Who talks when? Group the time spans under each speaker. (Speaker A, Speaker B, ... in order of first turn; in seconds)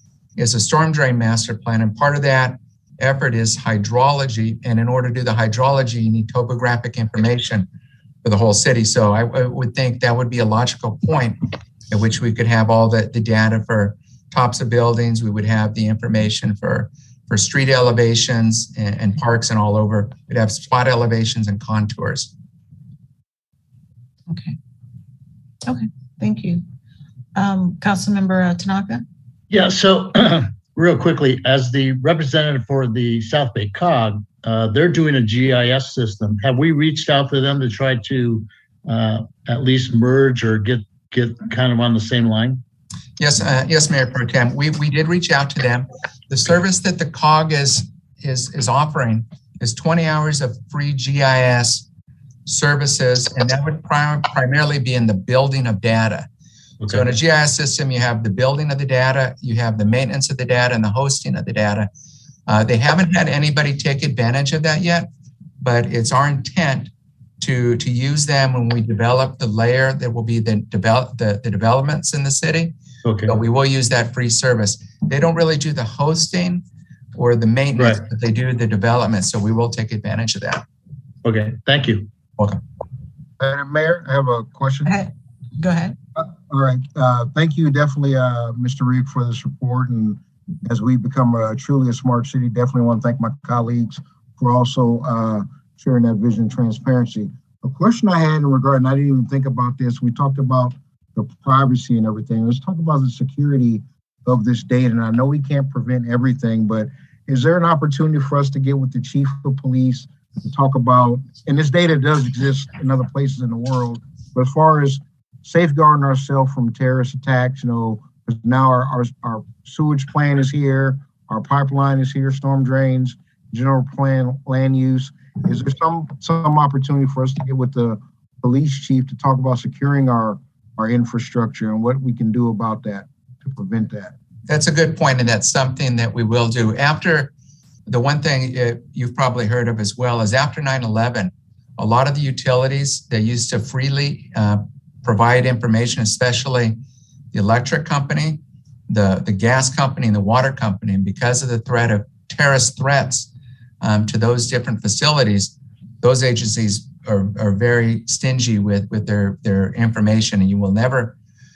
Speaker A: 0.4-7.7, 8.2-22.3, 43.2-51.9, 52.5-56.3, 56.9-61.9, 62.5-65.1, 65.6-72.7, 73.2-76.6, 77.2-80.6, 134.5-137.3, 137.9-146.8, 147.3-153.3, 153.8-161.1
Speaker B: 24.3-24.6, 25.7-26.6, 27.4-29.0, 84.8-86.0
Speaker C: 29.5-42.6, 56.8-57.1, 73.0-73.3, 77.8-78.0, 81.2-82.1
Speaker D: 83.4-85.0, 86.2-134.1